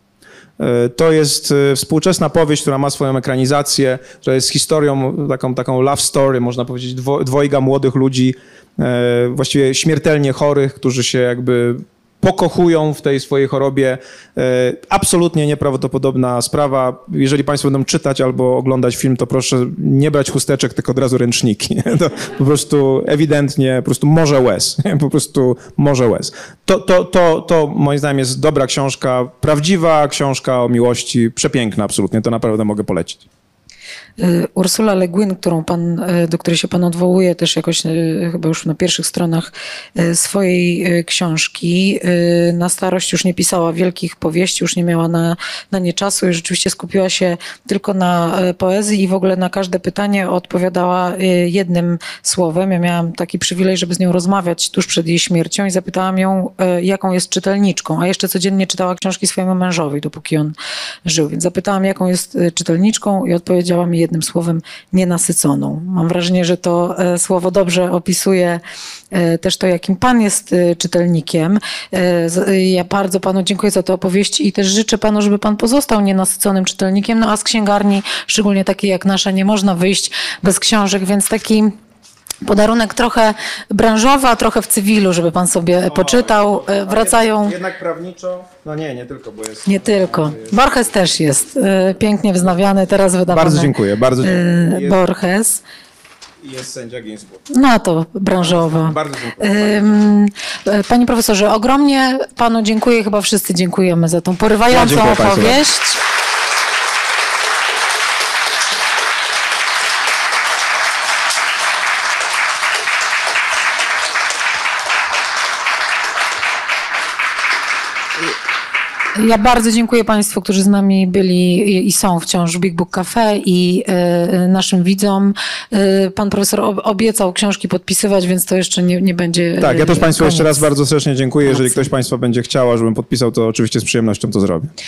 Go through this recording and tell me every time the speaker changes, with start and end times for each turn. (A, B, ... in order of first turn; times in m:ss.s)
0:00.6-0:33.2 A
0:34.2-1:21.7 B
1:22.4-1:27.6 B
1:25.9-1:30.6 A
1:29.6-1:35.6 B
1:33.3-1:35.0 A
1:36.4-1:37.4 A
1:37.5-1:46.0 B
1:38.4-1:40.0 A
1:44.7-1:45.6 A
1:59.1-2:10.6 B
2:09.6-2:14.7 A
2:11.4-2:11.8 B